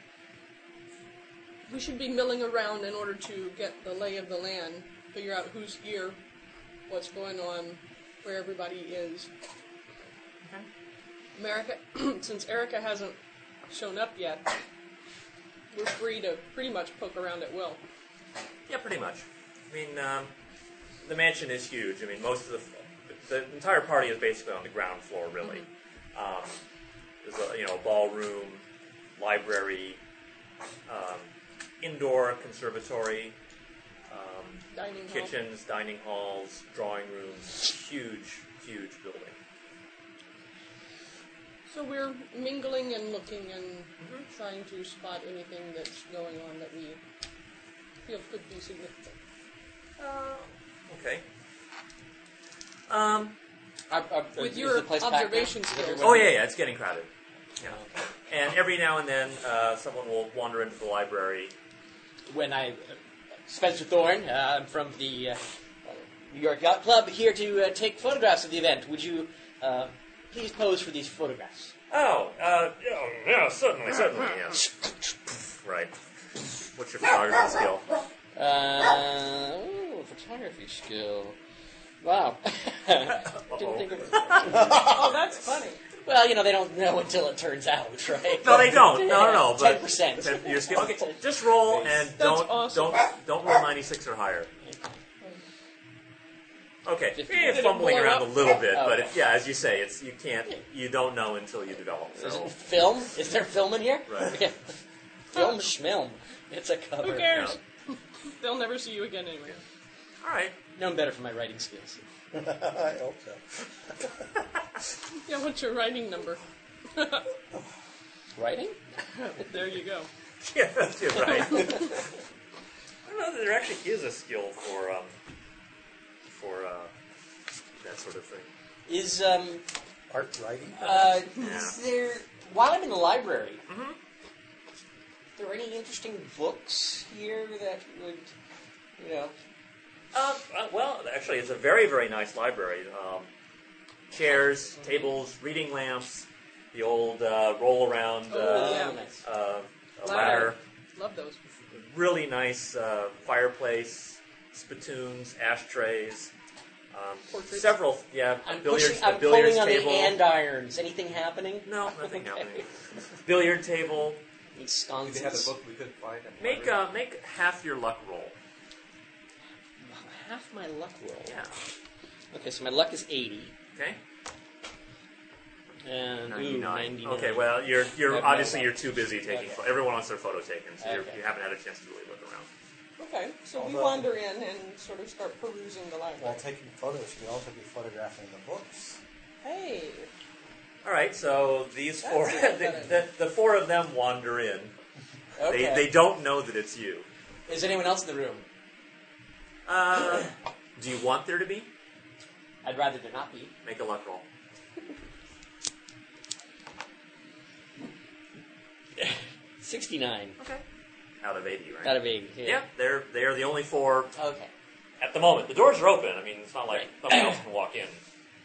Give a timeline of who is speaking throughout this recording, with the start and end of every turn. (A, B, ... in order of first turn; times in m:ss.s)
0:01.7-0:06.2 A
0:06.9-0:09.3 A
0:11.4-0:13.2 A
0:13.7-0:14.5 A
0:15.7-0:17.8 A
0:18.7-0:20.3 B
0:21.0-0:26.6 B
0:27.2-0:28.6 B
0:29.2-0:30.0 B
0:30.9-0:31.3 B
0:31.8-0:33.4 B
0:34.1-0:39.4 B
0:34.7-0:35.3 A
0:41.7-0:47.0 A
0:44.0-0:44.3 B
0:48.0-0:49.1 A
0:50.0-0:51.2 B
0:52.9-0:53.4 B
0:53.9-0:56.4 C
0:54.4-0:56.3 A
0:56.0-0:57.1 B
0:57.6-1:01.5 B
0:57.6-0:57.9 C
1:02.3-1:11.7 C
1:11.9-1:14.7 B
1:15.6-1:16.0 B
1:16.6-1:17.9 B
1:18.4-1:21.4 C
1:22.0-1:25.1 C
1:23.4-1:24.7 B
1:24.7-1:25.8 A
1:26.0-1:31.2 C
1:28.4-1:34.5 B
1:31.7-1:32.0 D
1:32.2-1:33.0 A
1:36.8-1:42.6 B
1:37.2-1:37.8 C
1:37.3-1:38.4 A
1:38.6-1:39.1 C
1:42.2-1:44.7 C
1:44.1-1:44.4 B
1:45.3-1:47.6 C
1:47.0-1:49.6 A
1:47.3-1:47.6 B
1:50.2-1:50.6 B
1:50.8-1:52.0 C
1:52.3-1:53.6 E
1:55.2-1:56.4 A
1:56.9-1:57.3 A
1:58.4-1:58.8 C
1:59.2-2:00.1 A
2:00.4-2:02.0 B
2:01.3-2:01.9 A
2:03.0-2:05.1 B
2:06.3-2:06.9 B
2:07.8-2:08.5 B
2:08.9-2:09.6 C
2:10.1-2:11.2 E
2:10.8-2:13.6 C
2:11.4-2:11.8 B
2:13.7-2:14.0 B
2:15.4-2:18.3 C
2:19.0-2:19.3 C
2:20.1-2:23.3 B
2:24.1-2:30.6 B
2:28.3-2:29.0 A
2:28.4-2:29.2 C
2:30.0-2:31.6 A
2:31.7-2:36.3 B
2:36.9-2:40.2 B
2:37.3-2:37.7 A
2:38.4-2:42.6 C
2:41.6-2:42.7 B
2:43.2-2:44.2 B
2:44.6-2:45.5 C
2:45.0-2:46.8 D
2:46.4-2:48.4 B
2:49.8-2:51.4 C
2:51.3-2:51.5 B
2:52.3-2:53.6 C
2:55.8-2:59.6 C
2:56.3-3:02.5 B
3:00.8-3:01.2 C
3:03.0-3:06.4 A
3:03.6-3:04.1 E
3:06.2-3:09.0 E
3:09.4-3:10.1 A
3:10.8-3:14.7 B
3:12.0-3:12.9 A
3:15.4-3:15.9 C
3:15.5-3:17.1 B
3:17.5-3:18.4 C
3:19.7-3:21.7 B
3:22.6-3:23.5 C
3:23.6-3:24.2 B
3:29.0-3:30.4 C
3:31.2-3:34.1 B
3:31.8-3:32.6 C
3:34.2-3:34.5 C
3:35.0-3:38.0 B
3:36.7-3:37.4 C